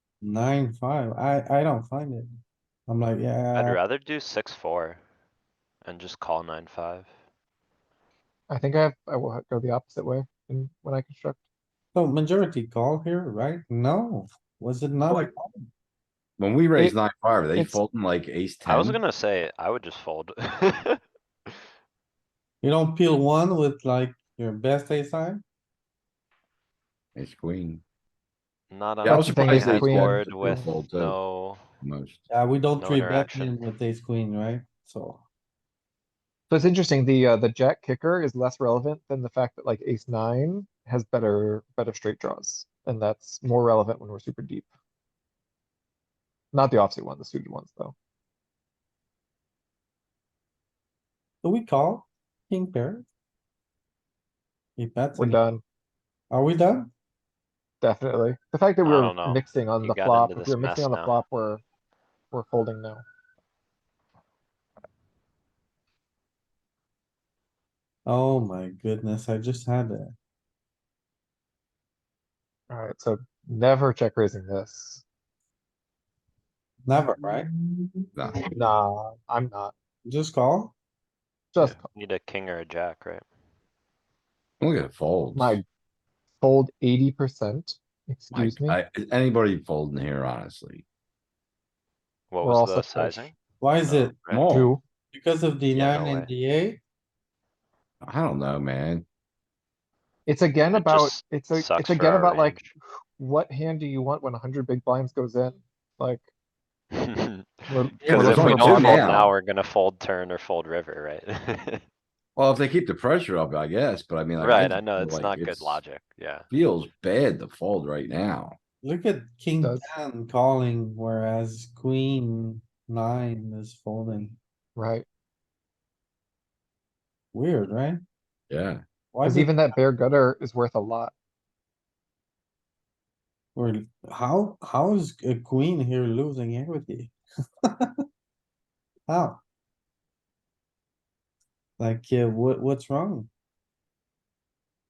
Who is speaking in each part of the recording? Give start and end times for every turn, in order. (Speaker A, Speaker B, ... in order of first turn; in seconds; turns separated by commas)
Speaker A: 0.2-3.8, Speaker B: 3.5-5.0, Speaker B: 5.8-7.1, Speaker C: 8.5-11.4, Speaker A: 11.9-15.7, Speaker D: 16.4-19.0, Speaker C: 17.5-17.8, Speaker B: 18.6-21.6, Speaker A: 22.6-25.4, Speaker D: 27.1-27.8, Speaker B: 28.7-31.6, Speaker D: 29.0-31.1, Speaker C: 29.1-30.6, Speaker D: 31.8-32.2, Speaker A: 32.3-35.2, Speaker B: 32.8-33.6, Speaker C: 36.5-44.7, Speaker C: 46.5-47.9, Speaker A: 51.4-53.0, Speaker A: 54.8-55.4, Speaker C: 55.1-55.6, Speaker A: 56.3-56.9, Speaker C: 57.8-61.6, Speaker B: 58.8-61.2, Speaker C: 62.3-63.0, Speaker A: 68.0-70.1, Speaker C: 72.7-75.0, Speaker A: 76.8-77.5, Speaker D: 78.1-78.5, Speaker C: 78.5-79.7, Speaker A: 80.0-80.7, Speaker C: 81.5-81.8, Speaker B: 81.9-83.2, Speaker D: 84.6-85.6, Speaker C: 85.3-85.6, Speaker C: 86.4-88.8, Speaker D: 88.3-90.8, Speaker B: 92.3-94.5, Speaker C: 92.4-93.3, Speaker A: 93.6-94.2, Speaker D: 94.3-94.7, Speaker C: 94.5-94.8, Speaker A: 95.1-96.8, Speaker B: 95.7-96.3, Speaker D: 98.0-99.0, Speaker C: 100.2-102.6, Speaker B: 100.7-102.7, Speaker C: 103.2-106.2, Speaker B: 107.0-111.8, Speaker C: 107.7-109.1, Speaker D: 108.0-109.3, Speaker D: 112.3-115.8, Speaker B: 114.4-116.5, Speaker D: 116.5-118.5, Speaker A: 118.8-124.4, Speaker C: 119.6-119.9, Speaker C: 124.8-125.0, Speaker A: 127.3-128.0, Speaker D: 128.5-128.8, Speaker A: 129.1-129.6, Speaker C: 129.2-131.1, Speaker A: 133.6-137.2, Speaker A: 139.1-139.4, Speaker A: 141.8-143.3